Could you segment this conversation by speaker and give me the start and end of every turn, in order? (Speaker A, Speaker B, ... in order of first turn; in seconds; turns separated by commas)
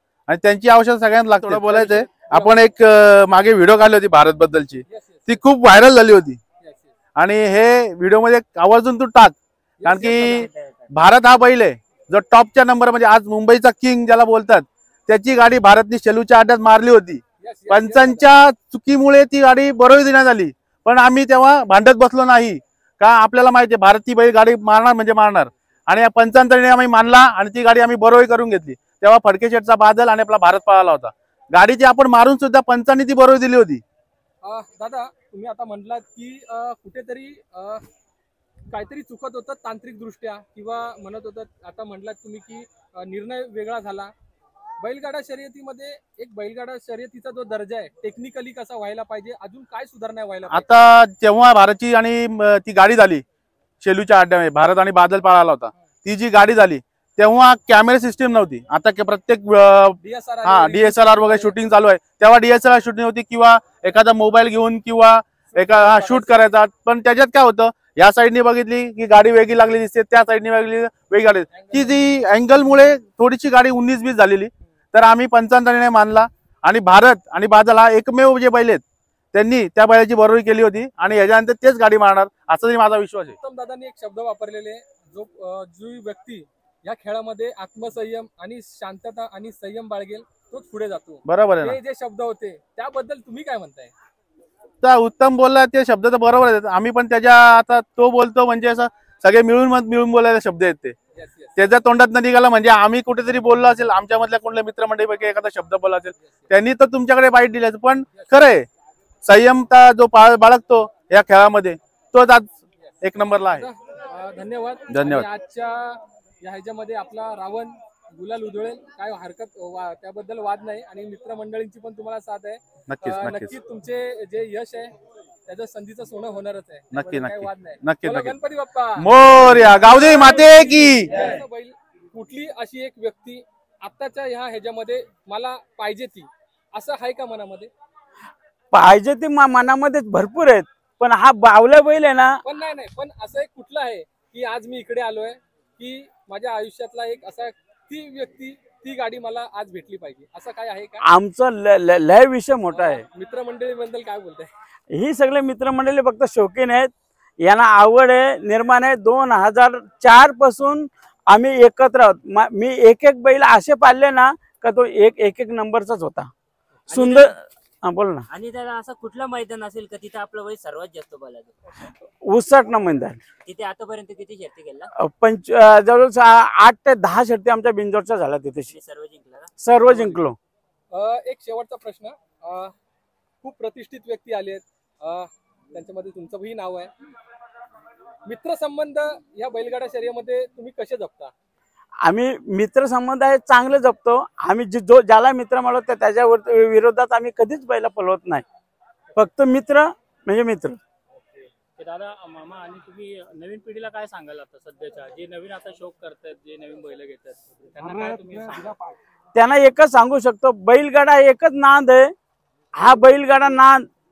Speaker A: 0.3-6.4, Speaker B: 1.4-2.5, Speaker B: 4.9-5.4, Speaker B: 6.6-6.9, Speaker A: 7.2-33.8, Speaker B: 9.8-10.5, Speaker C: 10.5-10.8, Speaker B: 17.4-18.3, Speaker B: 34.4-37.8, Speaker B: 38.7-44.1, Speaker B: 44.8-50.7, Speaker A: 50.5-53.2, Speaker A: 53.8-78.8, Speaker B: 60.0-61.6, Speaker B: 65.5-66.3, Speaker B: 71.5-72.0, Speaker A: 79.3-83.3, Speaker B: 83.4-93.9, Speaker A: 91.2-91.8, Speaker A: 94.8-100.9, Speaker B: 101.1-101.7, Speaker A: 101.5-108.7, Speaker B: 108.1-108.4, Speaker A: 109.2-113.7, Speaker B: 112.8-124.9, Speaker A: 114.9-115.3, Speaker A: 122.9-123.5, Speaker B: 125.5-137.7, Speaker A: 126.9-128.4, Speaker A: 129.0-131.3, Speaker D: 138.7-142.4, Speaker B: 142.4-151.0, Speaker D: 151.0-153.0, Speaker B: 152.7-154.5, Speaker D: 154.9-166.3, Speaker D: 166.9-168.2, Speaker C: 168.3-171.4, Speaker D: 172.2-173.2, Speaker C: 173.5-174.3, Speaker D: 175.0-178.7, Speaker C: 178.8-179.2, Speaker D: 179.6-180.4, Speaker B: 180.9-182.7, Speaker B: 183.4-186.9, Speaker B: 188.2-191.3, Speaker D: 192.0-198.4, Speaker D: 199.2-200.8, Speaker E: 201.8-208.7, Speaker D: 209.3-212.1, Speaker D: 212.8-213.8